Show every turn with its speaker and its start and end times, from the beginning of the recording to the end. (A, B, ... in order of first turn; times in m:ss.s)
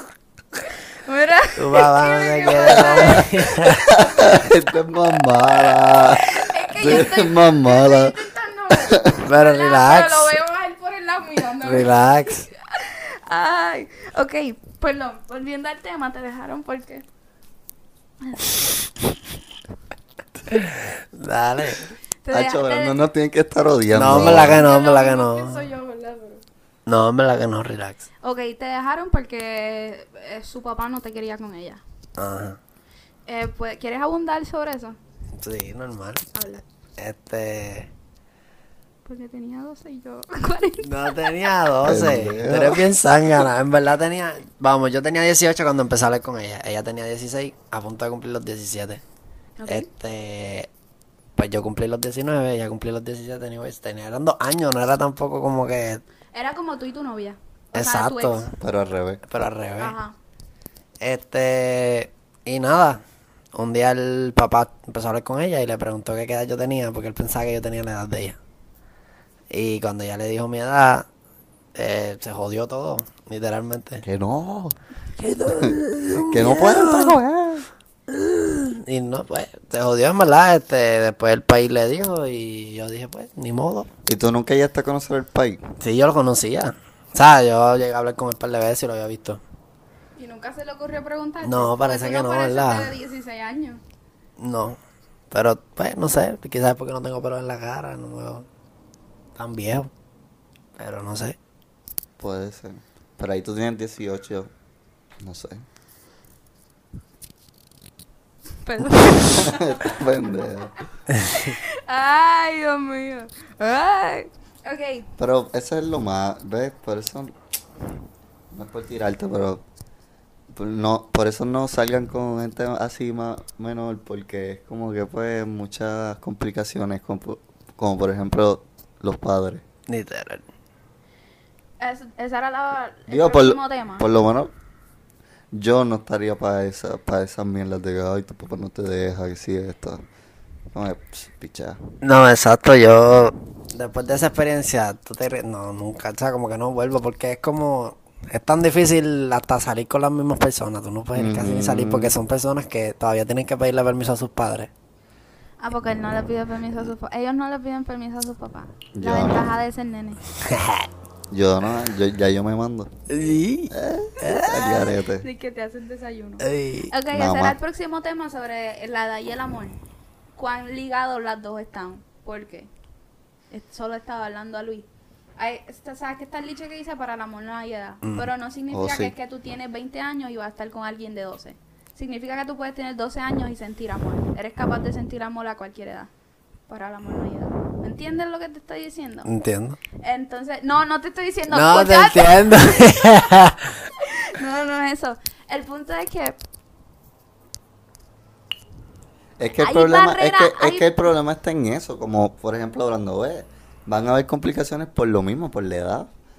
0:00.6-0:04.4 A
0:01.6-0:03.9 B
0:02.5-0:03.3 C
0:03.9-0:08.1 C
0:05.4-0:17.0 A
0:08.8-0:09.1 C
0:09.2-0:10.4 B
0:11.6-0:12.5 B
0:18.2-0:18.8 A
0:20.5-0:21.9 B
0:22.2-0:23.0 A
0:22.3-0:24.6 C
0:23.9-0:25.7 B
0:24.1-0:26.4 A
0:26.8-0:28.0 B
0:28.2-0:31.8 A
0:32.2-0:32.6 B
0:33.2-0:35.0 A
0:35.4-0:36.3 B
0:36.3-0:36.6 A
0:37.0-0:37.9 B
0:39.0-0:41.6 A
0:40.8-0:49.0 B
0:41.8-0:42.8 C
0:49.6-0:49.9 A
0:49.6-0:50.7 B
0:51.4-0:56.0 B
0:56.3-0:58.5 A
0:57.7-0:58.6 B
0:58.6-0:59.2 C
0:59.2-1:00.0 B
0:59.8-1:00.1 A
1:01.0-1:03.0 B
1:03.5-1:08.4 B
1:09.5-1:11.1 B
1:11.7-1:14.0 B
1:14.0-1:14.8 C
1:15.2-1:17.2 B
1:15.5-1:17.6 C
1:18.1-1:23.9 B
1:24.1-1:25.6 C
1:25.8-1:29.4 B
1:30.2-1:33.8 A
1:31.4-1:32.9 B
1:34.4-1:34.8 B
1:35.3-1:38.4 B
1:39.4-1:39.9 B
1:40.8-1:41.4 B
1:42.2-1:44.5 C
1:45.2-1:45.6 C
1:48.6-1:50.0 A
1:49.2-1:50.7 C
1:51.2-1:55.1 A
1:55.2-1:57.3 C
1:58.5-1:59.6 C
2:00.5-2:09.6 C
2:09.9-2:10.4 B
2:11.8-2:14.1 A
2:13.1-2:14.5 C
2:15.5-2:20.0 C
2:20.7-2:21.8 C
2:22.0-2:34.7 B
2:31.1-2:32.2 C
2:35.6-2:40.2 A
2:38.9-2:39.5 C
2:40.4-2:40.9 B
2:41.3-2:42.9 C
2:43.1-2:44.9 B
2:43.7-2:45.2 C
2:44.6-2:49.8 A
2:46.4-2:46.9 B
2:47.1-2:47.6 C
2:50.3-2:52.7 A
2:53.5-3:06.1 A
2:58.0-2:58.3 B
2:58.7-2:59.1 C
3:06.7-3:09.3 A
3:09.2-3:09.8 B
3:09.9-3:13.3 A
3:11.5-3:13.7 B
3:13.9-3:16.4 A
3:19.4-3:26.1 C
3:19.6-3:21.1 A